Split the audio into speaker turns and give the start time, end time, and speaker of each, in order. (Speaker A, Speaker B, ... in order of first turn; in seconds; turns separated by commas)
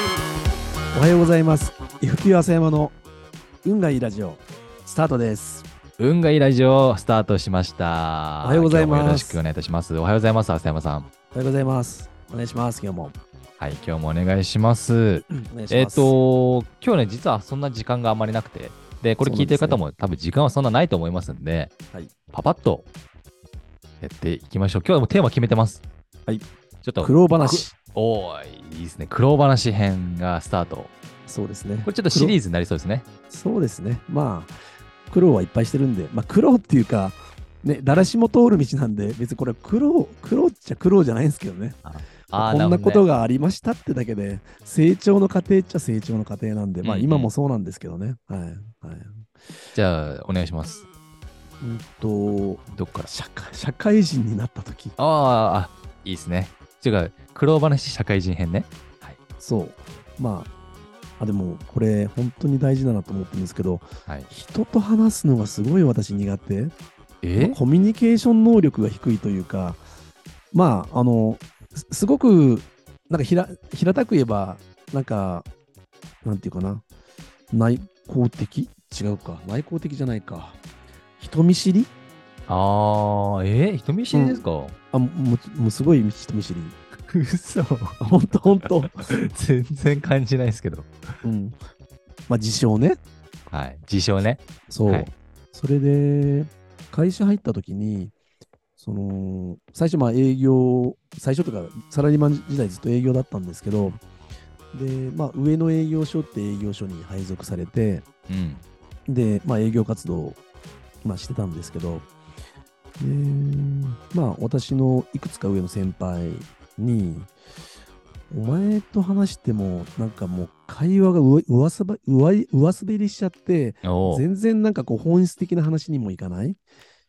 Speaker A: 0.9-3.0, Speaker A: 3.6-5.7, Speaker B: 6.0-11.1, Speaker A: 8.4-9.4, Speaker A: 11.3-13.2, Speaker B: 13.6-21.7, Speaker A: 15.3-16.1, Speaker A: 19.2-19.8, Speaker B: 22.3-22.9, Speaker B: 24.0-25.8, Speaker B: 26.8-30.9, Speaker A: 27.0-27.7, Speaker A: 31.3-32.4, Speaker B: 31.8-33.0, Speaker A: 33.3-34.6, Speaker A: 35.1-41.8, Speaker B: 41.8-43.0, Speaker A: 42.4-49.3, Speaker B: 46.8-47.3, Speaker B: 49.7-50.9, Speaker A: 51.6-55.0, Speaker B: 52.7-53.1, Speaker B: 55.0-59.2, Speaker A: 59.4-60.5, Speaker A: 61.2-66.7, Speaker B: 67.2-67.6, Speaker A: 67.3-69.8, Speaker A: 70.5-75.5, Speaker A: 76.2-76.8, Speaker A: 77.5-80.6, Speaker A: 81.2-81.9, Speaker B: 82.5-84.8, Speaker A: 84.1-86.8, Speaker B: 87.1-88.0, Speaker A: 88.0-89.1, Speaker B: 88.6-90.9, Speaker A: 91.2-91.6, Speaker A: 92.3-93.0, Speaker B: 93.5-95.1, Speaker A: 94.7-98.1, Speaker A: 98.8-104.0, Speaker A: 104.7-108.1, Speaker B: 108.3-108.6, Speaker A: 109.1-110.4, Speaker A: 111.0-112.1, Speaker A: 113.0-117.3, Speaker A: 118.3-126.6, Speaker B: 123.8-124.3